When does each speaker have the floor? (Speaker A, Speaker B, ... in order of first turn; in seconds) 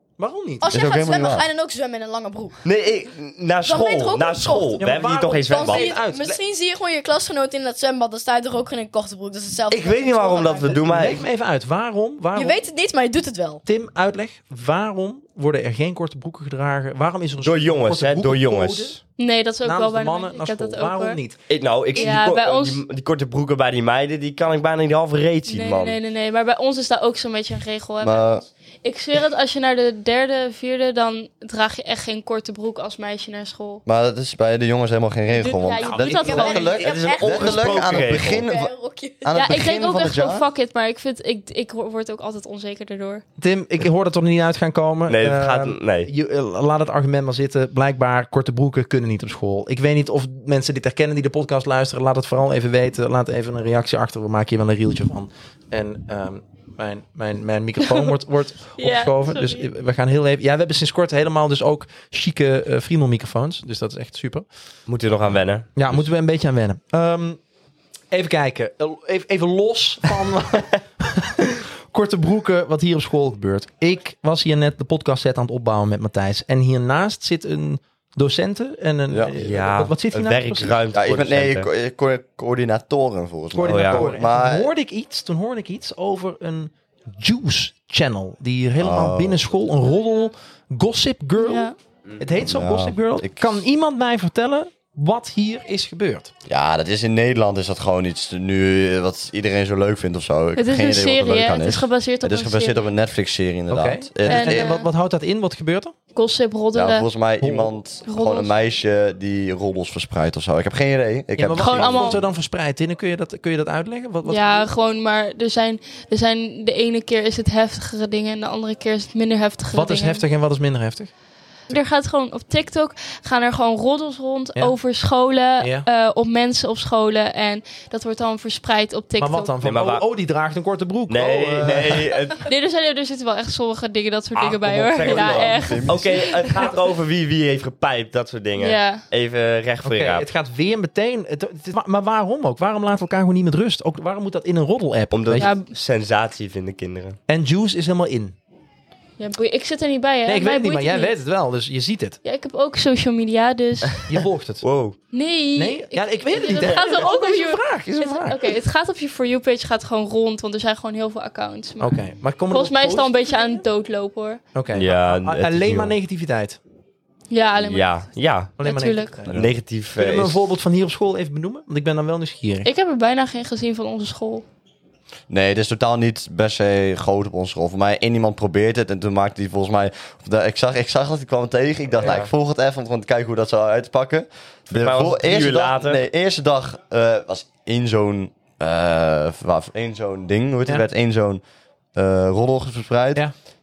Speaker A: 0.2-0.7, 4.8-6.4, 10.7-12.6, 13.7-19.0, 19.6-21.4, 35.8-37.2, 43.4-64.5, 65.8-67.4, 68.1-80.8, 83.5-96.3, 103.7-106.0, 107.4-107.8, 111.4-114.7, 119.7-121.1, 125.6-125.9, 129.2-132.1, 139.8-145.5, 147.3-148.3, 150.3-152.2, 154.1-154.7, 155.6-158.5, 161.8-163.6, 164.6-166.6, 168.6-172.7
Speaker B: 0.6-2.6, 3.6-4.9, 5.5-10.9, 12.3-13.6, 36.1-39.5
Speaker C: 0.7-1.5, 28.0-28.4, 33.9-38.7, 39.2-40.5, 80.9-84.7, 88.8-89.4, 92.4-93.6, 96.5-104.8, 106.7-112.2, 135.0-136.1, 175.3-191.4, 191.9-193.3
Speaker D: 2.6-6.0, 9.7-11.2, 17.4-19.0, 21.5-26.0, 37.0-38.5, 45.1-46.1, 64.9-66.0, 79.4-81.7, 83.7-84.1, 129.6-130.1, 131.1-132.4, 134.3-140.3, 145.1-147.2, 154.6-155.0, 164.7-165.9, 167.6-168.6, 169.3-170.4, 182.0-182.3, 184.7-186.0
Speaker E: 19.2-21.2, 21.9-22.8, 25.5-33.8, 35.3-36.9, 39.3-43.2, 58.8-59.7, 91.4-91.8, 100.6-102.8, 104.2-104.9, 106.1-107.1, 108.0-108.5, 111.6-112.2, 114.3-120.2, 121.7-129.6, 132.4-136.7, 138.6-139.1, 145.4-145.7, 149.2-151.2, 152.2-154.1, 155.1-164.4, 167.3-169.2, 172.6-174.4